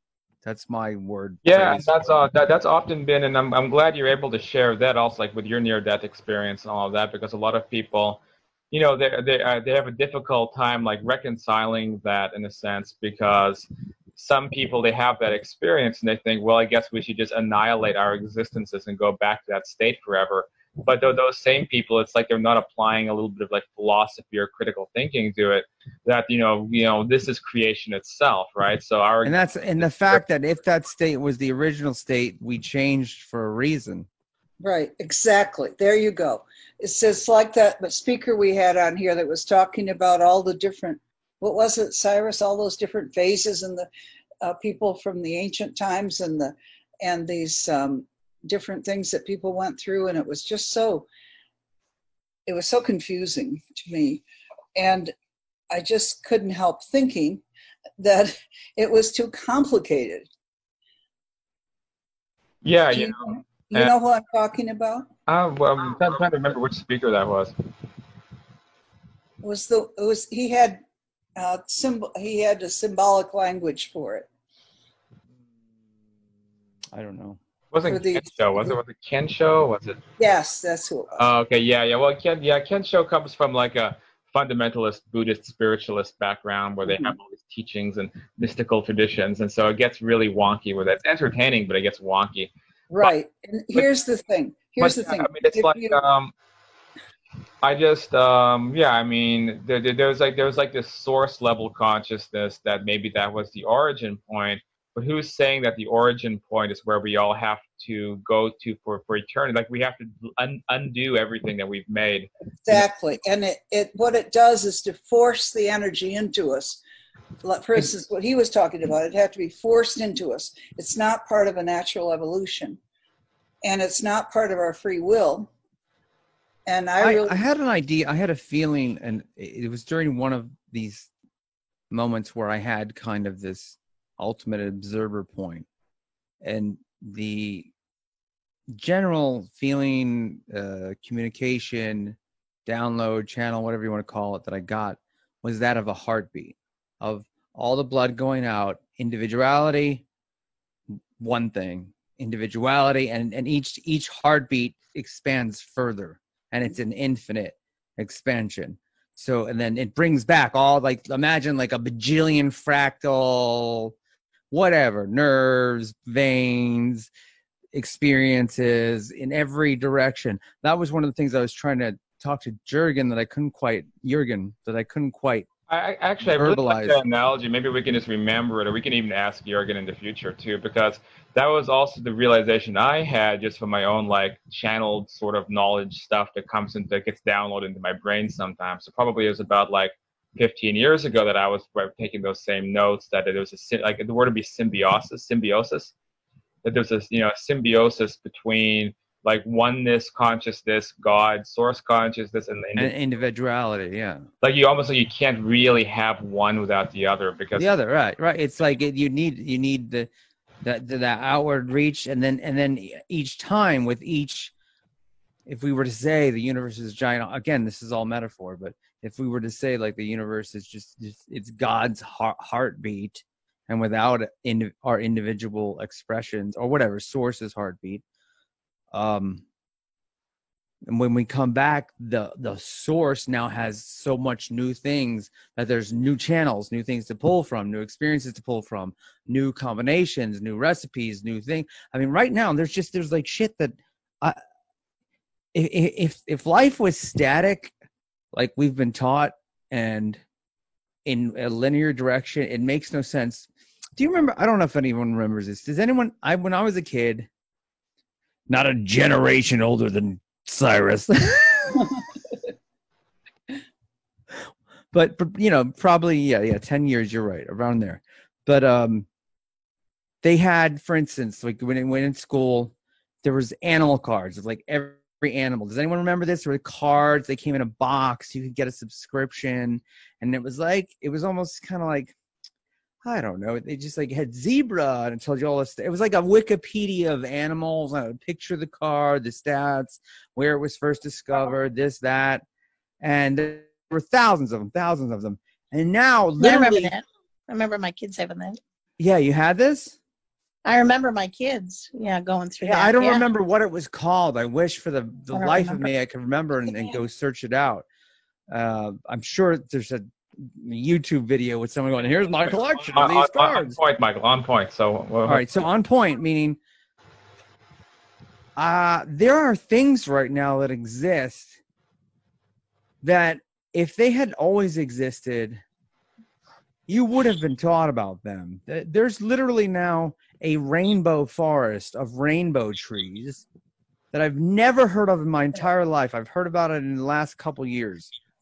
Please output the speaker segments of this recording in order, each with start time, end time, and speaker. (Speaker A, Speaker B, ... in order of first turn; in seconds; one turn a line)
Speaker A: 0.4-2.2
Speaker B: 1.4-8.2
Speaker B: 8.7-30.2
Speaker A: 29.2-34.1
Speaker C: 34.6-43.9
Speaker C: 44.4-51.1
Speaker C: 52.5-54.2
Speaker C: 54.8-55.1
Speaker C: 55.7-57.4
Speaker C: 58.0-60.3
Speaker B: 62.6-63.9
Speaker C: 62.9-65.1
Speaker B: 65.3-67.5
Speaker C: 69.4-70.8
Speaker C: 71.4-74.3
Speaker A: 76.9-77.4
Speaker B: 77.7-80.0
Speaker C: 77.9-78.8
Speaker C: 80.2-81.3
Speaker B: 81.2-93.1
Speaker C: 86.9-87.1
Speaker C: 92.9-96.0
Speaker B: 94.8-96.3
Speaker B: 97.6-112.8
Speaker C: 112.7-116.8
Speaker C: 117.4-122.8
Speaker C: 123.6-125.5
Speaker C: 126.7-127.4
Speaker A: 127.0-131.1
Speaker A: 131.9-135.7
Speaker A: 136.4-137.7
Speaker A: 138.7-150.1
Speaker A: 151.2-163.9
Speaker A: 164.5-167.1
Speaker A: 167.7-175.5
Speaker B: 175.7-195.9
Speaker A: 176.2-177.0
Speaker B: 196.6-202.9
Speaker A: 202.8-204.2
Speaker B: 204.4-207.7
Speaker A: 207.6-210.1
Speaker A: 210.6-214.5
Speaker A: 215.5-228.0
Speaker A: 228.9-229.4
Speaker A: 230.8-244.4
Speaker A: 245.5-247.7
Speaker A: 248.3-250.2
Speaker A: 251.1-257.3
Speaker A: 258.5-262.0
Speaker A: 264.9-269.1
Speaker A: 270.2-282.1
Speaker A: 283.0-292.4
Speaker A: 293.0-296.9
Speaker D: 296.4-298.6
Speaker A: 299.0-300.0
Speaker D: 300.6-303.2
Speaker A: 302.6-307.9
Speaker D: 305.3-305.9
Speaker A: 308.5-313.8
Speaker B: 312.7-315.4
Speaker A: 315.3-316.6
Speaker A: 318.6-321.6
Speaker A: 323.0-325.6
Speaker A: 326.9-333.4
Speaker A: 334.1-338.1